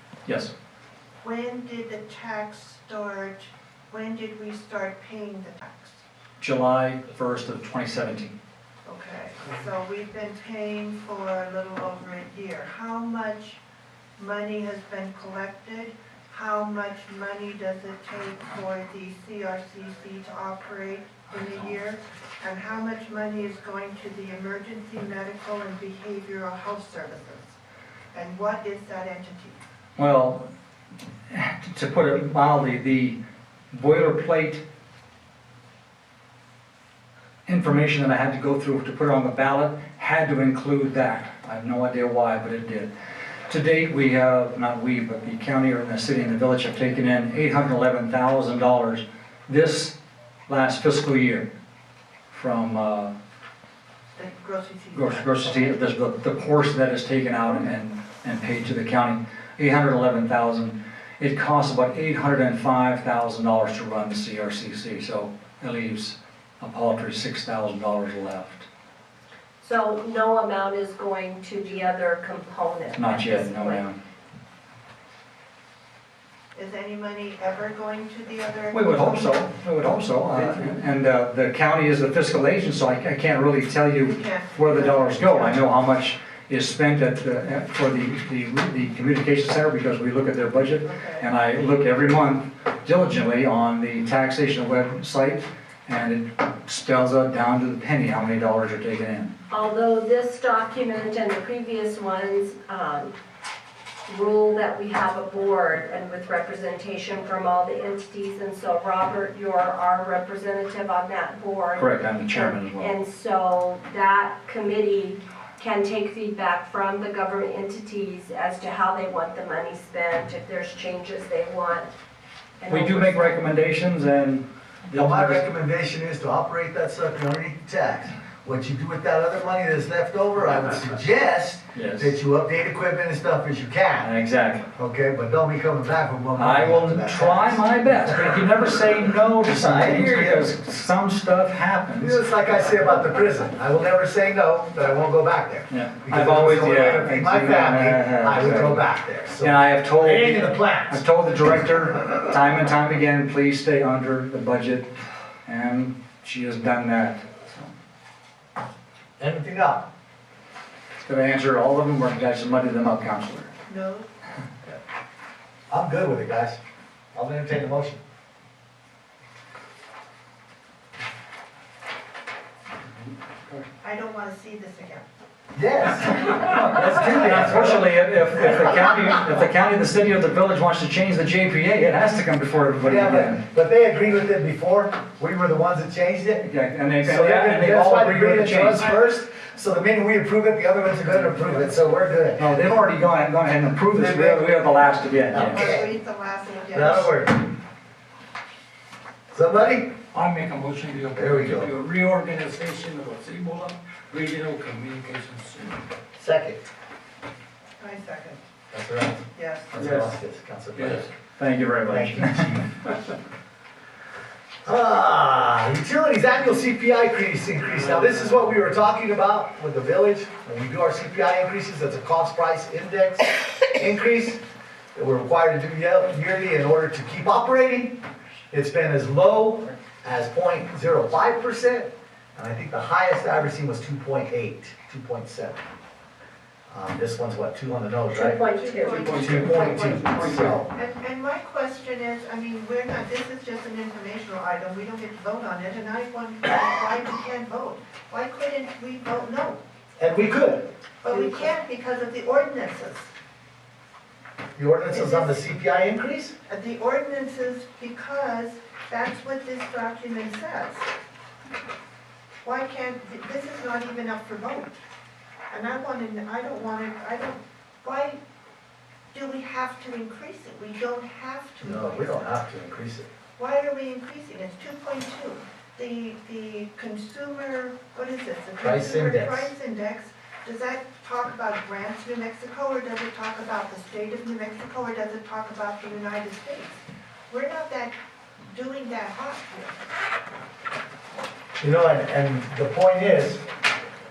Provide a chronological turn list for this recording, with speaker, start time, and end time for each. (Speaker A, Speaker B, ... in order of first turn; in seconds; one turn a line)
Speaker A: 0.3-0.5
Speaker B: 1.2-6.0
Speaker A: 6.4-8.3
Speaker B: 8.8-13.6
Speaker B: 14.2-27.6
Speaker B: 28.1-29.6
Speaker A: 30.0-30.5
Speaker A: 31.3-33.2
Speaker A: 33.7-34.6
Speaker A: 37.5-42.9
Speaker A: 43.5-50.0
Speaker A: 50.5-51.5
Speaker A: 52.3-53.1
Speaker B: 54.1-55.8
Speaker A: 54.9-68.7
Speaker C: 69.6-73.8
Speaker A: 73.0-74.0
Speaker B: 76.5-79.3
Speaker A: 78.7-99.3
Speaker B: 84.0-85.7
Speaker B: 90.8-91.3
Speaker C: 99.5-103.2
Speaker C: 104.1-121.9
Speaker A: 111.8-112.9
Speaker C: 122.6-123.4
Speaker A: 122.7-125.5
Speaker D: 124.9-134.1
Speaker A: 131.7-132.2
Speaker A: 134.0-134.7
Speaker D: 134.8-138.3
Speaker A: 136.4-142.2
Speaker D: 139.5-140.5
Speaker D: 142.0-151.0
Speaker A: 145.7-154.9
Speaker A: 155.5-157.7
Speaker D: 159.2-159.9
Speaker A: 161.0-163.5
Speaker B: 163.7-164.1
Speaker D: 165.7-166.6
Speaker D: 167.1-168.0
Speaker B: 173.8-175.1
Speaker D: 175.6-178.7
Speaker A: 176.3-183.4
Speaker D: 182.8-186.5
Speaker A: 186.4-188.9
Speaker D: 187.0-192.5
Speaker A: 192.4-195.7
Speaker D: 193.9-194.5
Speaker D: 195.3-195.9
Speaker B: 195.3-197.2
Speaker D: 196.7-197.4
Speaker D: 199.3-200.0
Speaker E: 200.1-205.8
Speaker D: 201.2-201.7
Speaker D: 206.2-206.6
Speaker B: 207.8-208.4
Speaker D: 208.7-211.1
Speaker B: 209.3-209.7
Speaker A: 209.8-210.0
Speaker A: 210.8-212.7
Speaker D: 211.9-212.7
Speaker D: 214.7-224.4
Speaker E: 217.9-218.4
Speaker D: 224.9-235.6
Speaker D: 236.7-238.4
Speaker C: 238.1-239.0
Speaker B: 238.5-249.6
Speaker A: 238.9-240.6
Speaker D: 239.0-240.7
Speaker D: 250.0-250.7
Speaker B: 251.0-253.1
Speaker D: 254.6-256.4
Speaker B: 254.9-255.4
Speaker B: 256.5-260.9
Speaker B: 262.4-264.8
Speaker B: 265.5-268.2
Speaker B: 269.1-272.3
Speaker D: 271.6-273.1
Speaker B: 273.4-288.0
Speaker D: 278.6-279.5
Speaker B: 288.5-289.9
Speaker D: 291.6-293.5